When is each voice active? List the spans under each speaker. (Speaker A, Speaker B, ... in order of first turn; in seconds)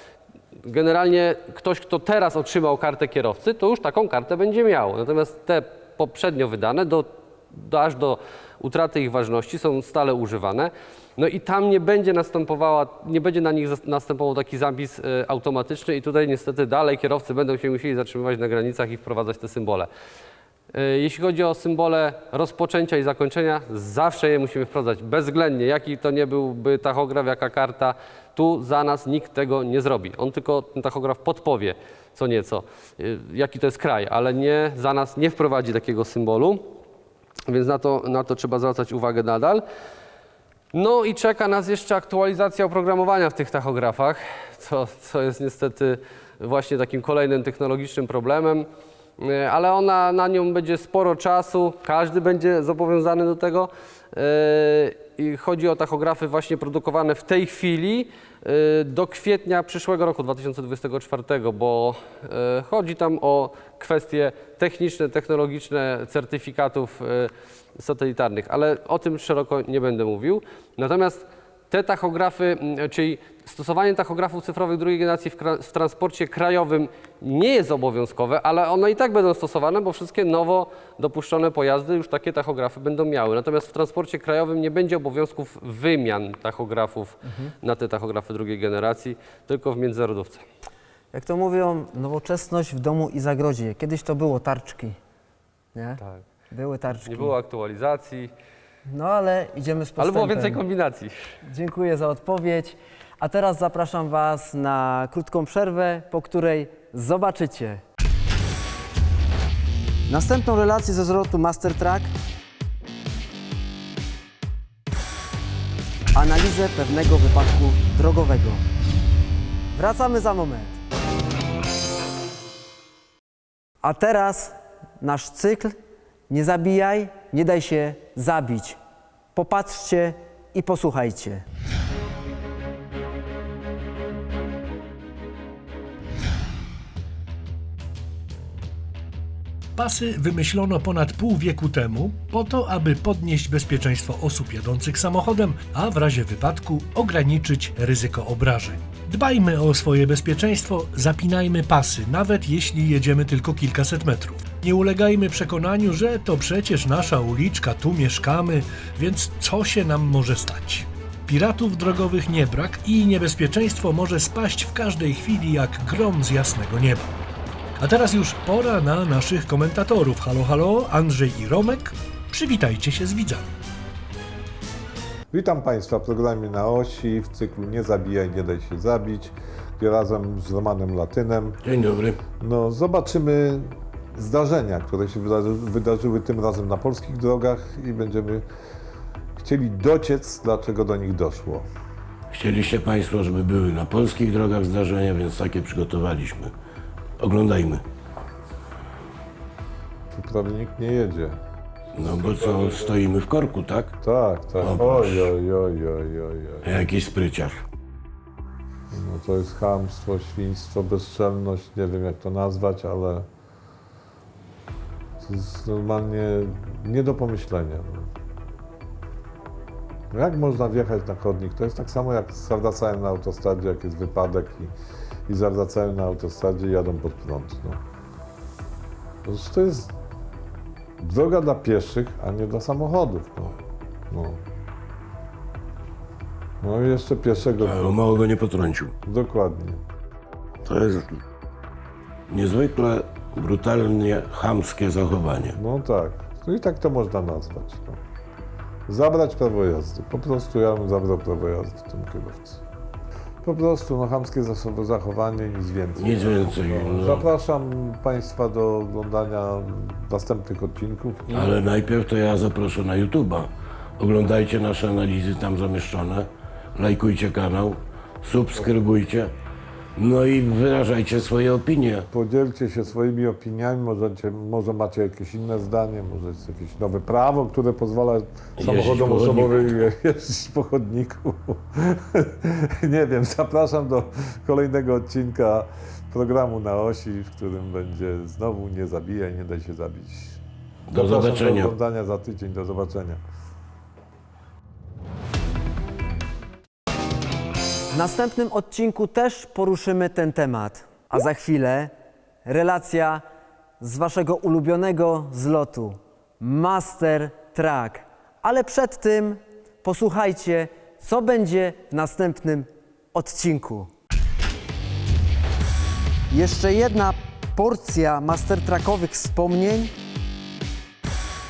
Speaker A: 0.6-19.9, 20.7-36.7, 37.5-39.6, 40.7-48.7, 49.2-90.4, 97.0-98.3, 100.0-101.1
Speaker B: 91.1-95.0, 95.7-97.3, 98.8-100.6, 101.4-107.8, 110.1-112.1, 116.1-118.6, 119.7-120.8, 123.8-125.8, 126.3-128.8, 129.3-131.4, 297.9-301.9, 302.4-303.2, 303.8-313.9, 316.3-319.9
Speaker C: 139.8-167.1, 167.8-173.5
Speaker D: 175.3-181.6, 182.4-188.4, 189.4-191.7, 200.1-201.4, 204.0-206.9, 208.9-213.3, 215.2-218.1, 220.1-224.7, 225.3-227.8, 229.2-229.9, 231.0-233.6, 234.1-234.4, 236.6-238.0, 239.0-239.8, 245.5-248.0, 248.9-252.6, 253.4-261.6, 272.1-290.4, 290.9-293.2
Speaker E: 181.6-182.2, 192.3-196.5, 197.2-197.8, 201.9-203.9, 204.6-205.3, 206.6-207.6, 237.6-238.9, 240.7-241.2, 242.3-245.6, 256.0-257.3, 261.3-269.3, 270.0-272.1, 278.6-279.7, 290.9-291.7